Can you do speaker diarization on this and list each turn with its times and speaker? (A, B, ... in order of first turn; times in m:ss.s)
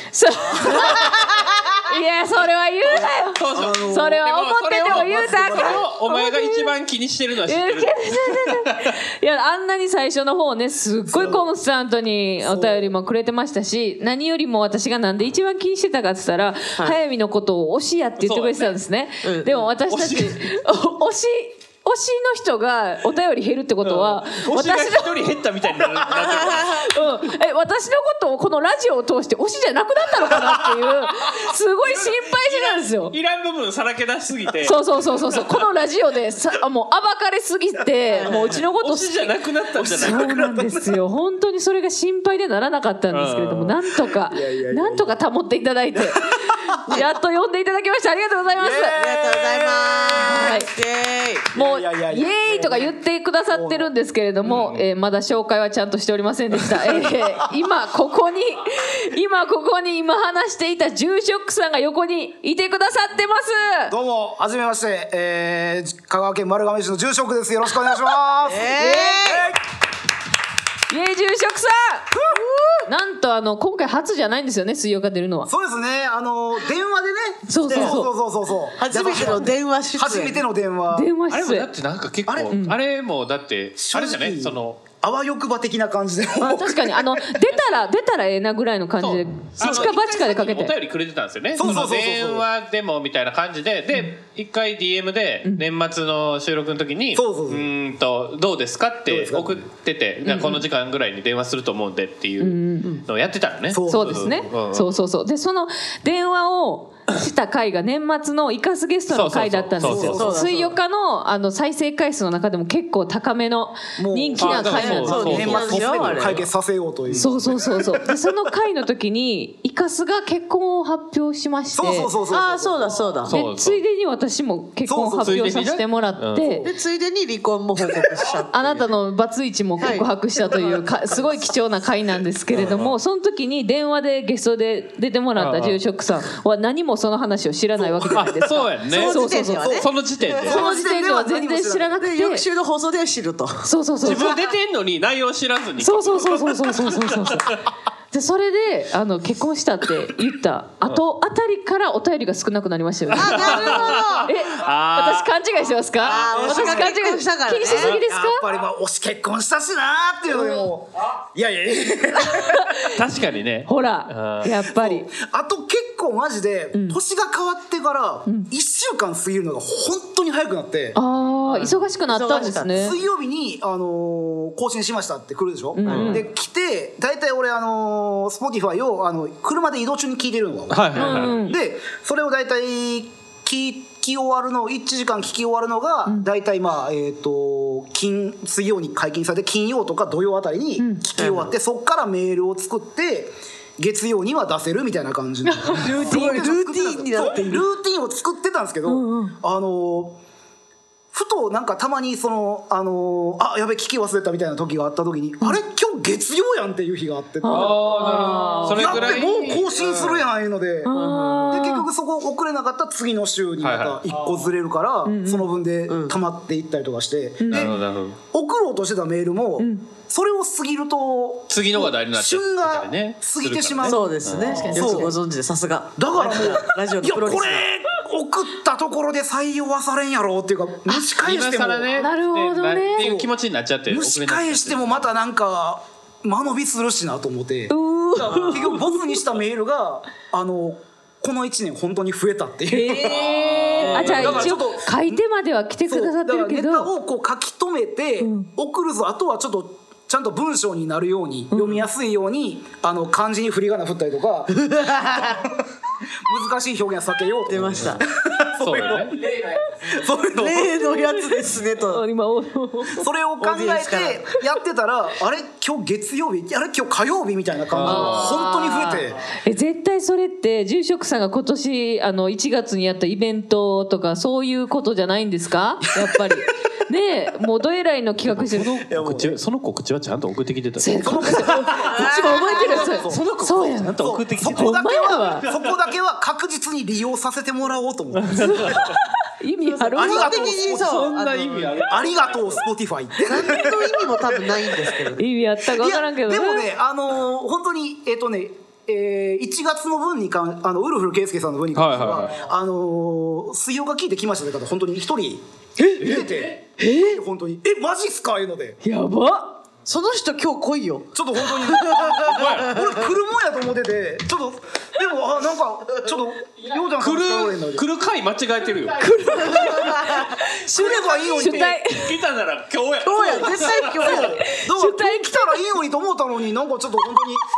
0:00.1-0:06.7 A
0:02.8-0:08.9 B
0:03.5-0:04.2 C
0:04.8-0:05.8 C
0:07.4-0:25.1 A
0:11.1-0:11.5 C
0:12.4-0:12.9 C
0:18.2-0:18.8 B
0:19.2-0:19.7 D
0:19.9-0:20.5 B
0:23.8-0:26.9 B
0:26.1-0:26.9 D
0:26.7-0:33.2 A
0:31.2-0:34.8 B
0:34.6-0:49.0 A
0:38.1-0:38.6 D
0:38.8-0:40.5 B
0:39.8-0:40.9 C
0:43.1-0:43.8 B
0:44.3-0:45.2 C
0:46.0-0:46.8 C
0:48.6-0:50.5 C
0:49.0-0:51.5 D
0:50.2-0:50.7 A
0:51.5-0:52.9 C
0:51.5-1:04.0 A
0:53.5-0:53.9 C
1:03.9-1:09.6 C
1:08.4-1:09.5 D
1:10.9-1:12.1 A
1:12.2-1:12.4 C
1:12.3-1:12.7 D
1:12.9-1:15.5 A
1:15.5-1:21.1 C
1:17.5-1:18.1 A
1:17.7-1:18.0 D
1:18.8-1:20.4 D
1:20.9-1:21.7 A
1:21.3-1:24.8 B
1:22.5-1:22.8 A
1:23.8-1:27.4 C
1:26.4-1:30.8 A
1:29.0-1:44.9 B
1:31.6-1:32.5 C
1:37.2-1:37.7 C
1:39.1-1:39.6 C
1:40.2-1:40.6 A
1:42.4-1:43.0 A
1:43.7-1:44.5 C
1:43.9-1:55.7 A
1:49.1-1:50.4 B
1:49.8-1:50.8 D
1:54.0-1:58.0 C
1:54.4-1:56.5 B
1:54.9-1:56.4 D
1:57.2-2:02.1 A
2:01.7-2:03.2 C
2:02.3-2:03.4 D
2:03.2-2:03.8 B
2:03.3-2:06.7 A
2:04.9-2:05.5 C
2:05.2-2:06.6 B
2:06.4-2:06.7 C
2:06.6-2:08.9 D
2:08.5-2:19.8 A
2:09.8-2:10.7 D
2:12.6-2:12.9 B
2:15.4-2:15.8 B
2:17.8-2:18.2 C
2:18.1-2:19.2 B
2:18.9-2:20.7 D
2:19.6-2:22.0 C
2:19.7-2:20.6 B
2:20.5-2:22.5 A
2:22.0-2:24.4 D
2:23.6-2:24.4 A
2:24.0-2:27.6 B
2:25.8-2:27.6 A
2:28.1-2:38.5 A
2:33.1-2:35.3 B
2:33.1-2:34.3 D
2:36.0-2:38.0 D
2:36.1-2:36.9 C
2:37.7-2:42.9 C
2:40.3-2:40.6 A
2:42.3-2:42.9 A
2:42.9-2:44.5 B
2:43.7-2:45.1 A
2:44.7-2:51.0 C
2:51.0-2:53.0 A
2:51.5-2:52.8 D
2:52.4-3:20.2 C
2:55.7-2:56.2 A
2:55.9-2:56.2 D
2:55.9-2:56.2 B
3:00.7-3:01.4 B
3:01.0-3:01.6 A
3:10.8-3:11.0 A
3:11.2-3:11.5 D
3:15.4-3:16.5 A
3:15.8-3:17.7 D
3:18.9-3:19.4 A
3:21.1-3:30.9 C
3:27.4-3:29.2 A
3:27.5-3:30.3 B
3:30.8-3:31.9 A
3:30.9-3:31.8 D
3:31.5-3:37.8 C
3:33.6-3:34.0 B
3:35.0-3:35.5 A
3:35.9-3:36.2 D
3:37.4-3:37.8 A
3:37.5-3:38.2 B
3:38.3-3:45.2 C
3:39.6-3:39.9 A
3:41.5-3:44.8 B
3:43.8-3:47.7 D
3:44.4-3:45.2 A
3:46.0-3:52.0 C
3:51.2-3:55.1 B
3:52.0-3:53.2 A
3:53.0-3:53.3 C
3:53.9-4:05.2 C
3:57.7-3:59.2 A
4:02.7-4:06.9 A
4:03.1-4:04.6 B
4:05.9-4:15.6 C
4:08.2-4:08.5 A
4:11.5-4:11.8 A
4:14.6-4:15.4 D
4:16.3-4:20.9 C
4:17.5-4:18.1 D
4:17.6-4:18.0 B
4:18.6-4:19.2 B
4:20.4-4:22.0 D
4:20.7-4:23.1 A
4:22.9-4:29.2 C
4:23.4-4:24.2 D
4:27.7-4:28.4 B
4:27.8-4:38.8 A
4:38.3-4:41.8 B
4:38.9-4:39.4 C
4:40.8-4:45.5 A
4:41.0-4:48.9 C
4:41.8-4:43.0 D
4:43.0-4:44.8 B
4:48.2-4:48.9 B
4:48.3-4:50.6 A
4:49.6-4:51.9 D
4:50.0-4:51.1 C
4:50.7-4:52.6 B
4:51.8-4:55.1 C
4:53.2-4:55.2 D
4:55.2-4:56.7 A
4:55.8-5:08.8 C
5:01.7-5:02.4 B
5:05.8-5:06.2 A
5:06.8-5:07.2 A
5:08.8-5:09.6 A
5:09.9-5:13.1 D
5:11.2-5:17.9 C
5:12.2-5:12.8 B
5:17.0-5:19.6 B
5:19.0-5:22.2 A
5:19.5-5:20.3 D
5:20.7-5:21.8 C
5:21.3-5:24.3 B
5:23.0-5:24.4 D
5:23.3-5:27.4 C
5:24.4-5:25.8 A